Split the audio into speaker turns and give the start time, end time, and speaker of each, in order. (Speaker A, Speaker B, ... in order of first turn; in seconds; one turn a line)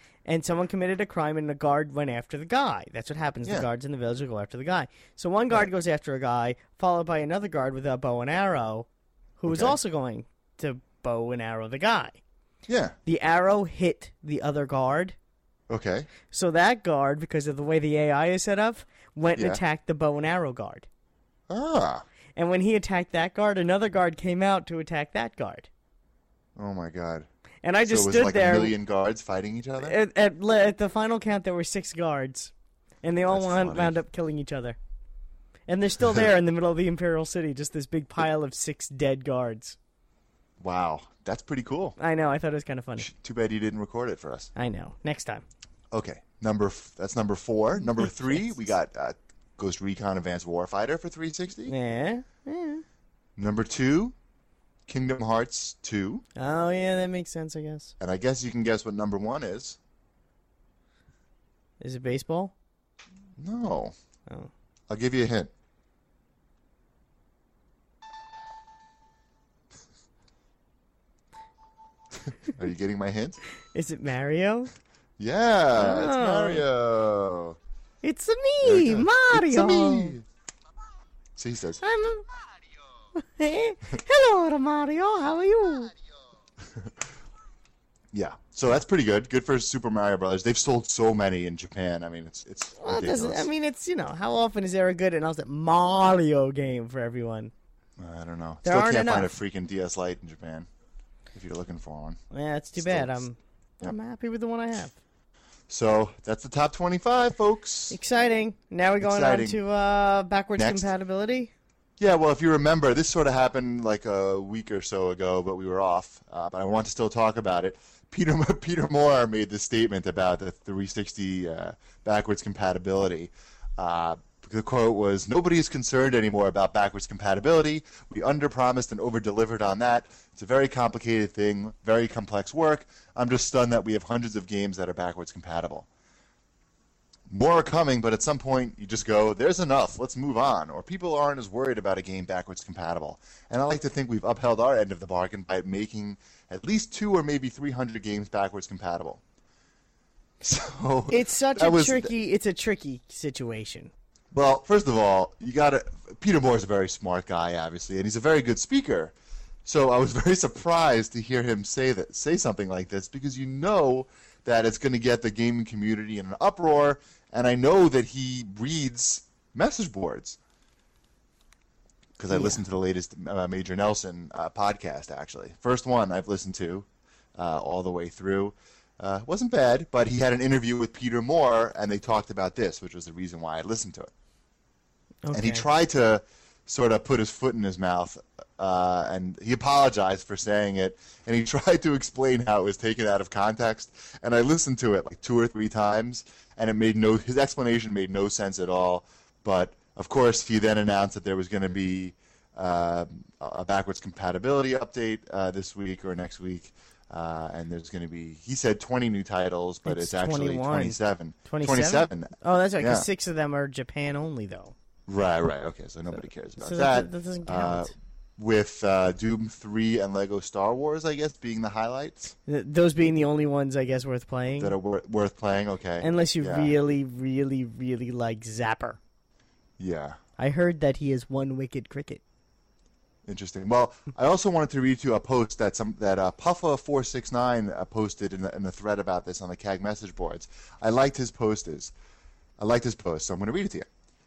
Speaker A: 0.2-8.9
Speaker A: 9.4-12.2
Speaker B: 9.5-9.8
Speaker B: 12.7-12.9
Speaker A: 13.1-15.2
Speaker B: 15.7-16.1
Speaker A: 16.3-20.9
Speaker B: 19.3-19.6
Speaker B: 21.5-22.0
Speaker A: 22.4-25.7
Speaker B: 26.6-27.3
Speaker A: 27.6-28.7
Speaker B: 27.8-30.0
Speaker A: 29.8-32.5
Speaker A: 33.0-34.8
Speaker B: 33.3-34.0
Speaker A: 35.7-39.8
Speaker B: 40.6-42.0
Speaker A: 42.0-43.1
Speaker B: 43.0-44.5
Speaker A: 44.5-45.4
Speaker B: 45.9-51.7
Speaker A: 51.7-52.8
Speaker B: 53.4-54.1
Speaker B: 54.9-56.2
Speaker A: 56.4-57.9
Speaker B: 58.0-59.8
Speaker A: 61.8-62.5
Speaker B: 63.4-63.9
Speaker B: 64.9-65.5
Speaker B: 72.3-73.4
Speaker A: 73.7-74.7
Speaker B: 75.2-77.6
Speaker A: 75.7-76.6
Speaker A: 78.0-80.1
Speaker B: 78.6-80.2
Speaker B: 81.3-81.8
Speaker A: 81.8-82.3
Speaker A: 83.2-85.9
Speaker B: 88.1-93.5
Speaker A: 92.8-97.5
Speaker B: 98.0-100.7
Speaker A: 98.6-99.3
Speaker B: 101.3-102.2
Speaker A: 102.3-104.9
Speaker B: 102.8-103.2
Speaker B: 105.7-108.0
Speaker A: 107.9-111.5
Speaker B: 109.0-109.6
Speaker B: 110.6-110.9
Speaker B: 112.0-135.9
Speaker B: 137.3-149.2
Speaker B: 150.4-152.1
Speaker A: 151.1-153.9
Speaker B: 154.3-159.1
Speaker B: 159.6-170.4
Speaker B: 172.2-184.1
Speaker A: 172.3-172.6
Speaker A: 185.2-185.6
Speaker B: 185.3-213.1
Speaker A: 209.8-214.7
Speaker B: 215.1-222.3
Speaker A: 216.6-217.9
Speaker A: 222.5-224.8
Speaker B: 224.6-226.7
Speaker A: 226.0-229.0
Speaker B: 229.8-230.2
Speaker A: 230.4-232.2
Speaker B: 233.2-241.9
Speaker B: 242.6-243.9